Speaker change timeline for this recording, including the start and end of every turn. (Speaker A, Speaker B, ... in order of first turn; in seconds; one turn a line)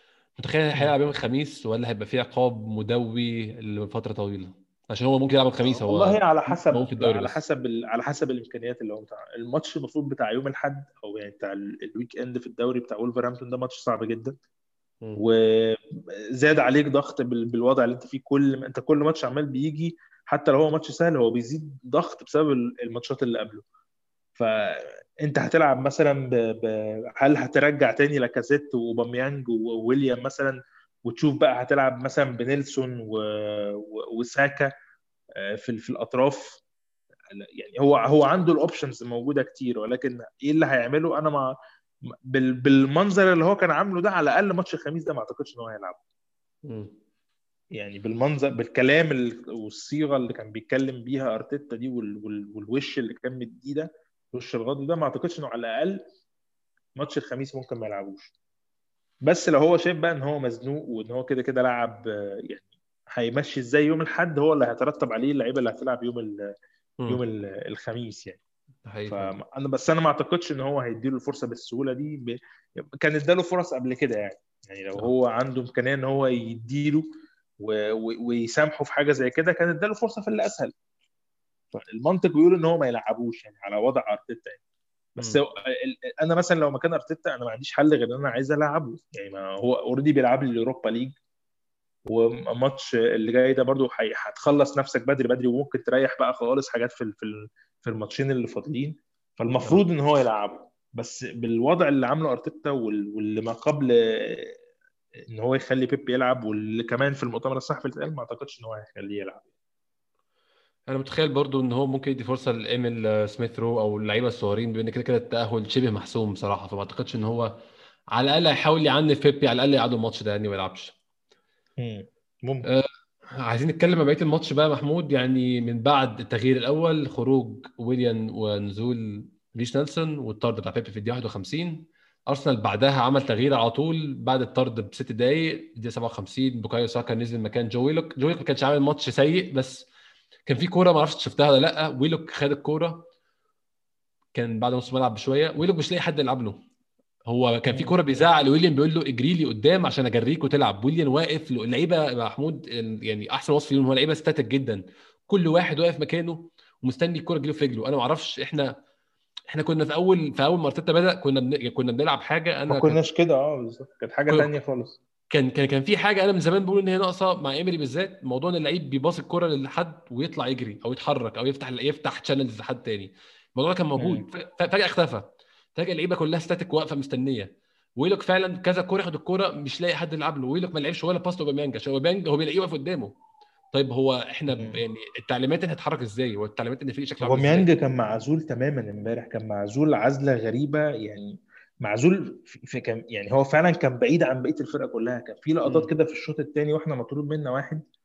Speaker A: 0.4-7.4
Speaker B: 5.7-14.4
Speaker B: 15.2-15.8
Speaker B: 16.4-23.6
Speaker B: 24.4-34.7
Speaker B: 35.4-36.6
Speaker B: 37.3-41.5
Speaker B: 42.3-46.0
Speaker A: 46.6-46.9
Speaker B: 47.7-56.0
Speaker B: 57.0-58.3
Speaker B: 59.2-66.4
Speaker B: 67.1-68.4
Speaker A: 68.8-69.3
Speaker B: 69.1-77.0
Speaker B: 77.6-80.7
Speaker B: 81.7-84.6
Speaker B: 85.2-91.1
Speaker B: 92.1-104.5
Speaker B: 105.3-109.5
Speaker A: 110.9-117.5
Speaker A: 118.1-120.9
Speaker B: 121.8-122.7
Speaker A: 122.7-139.9
Speaker A: 140.5-143.0
Speaker A: 144.3-146.6
Speaker A: 147.3-158.7
Speaker B: 147.7-148.0
Speaker A: 159.5-163.0
Speaker B: 162.7-165.0
Speaker A: 165.3-183.1
Speaker B: 174.0-174.2
Speaker A: 183.7-187.7
Speaker B: 184.5-184.8
Speaker B: 187.2-197.8
Speaker A: 195.6-195.9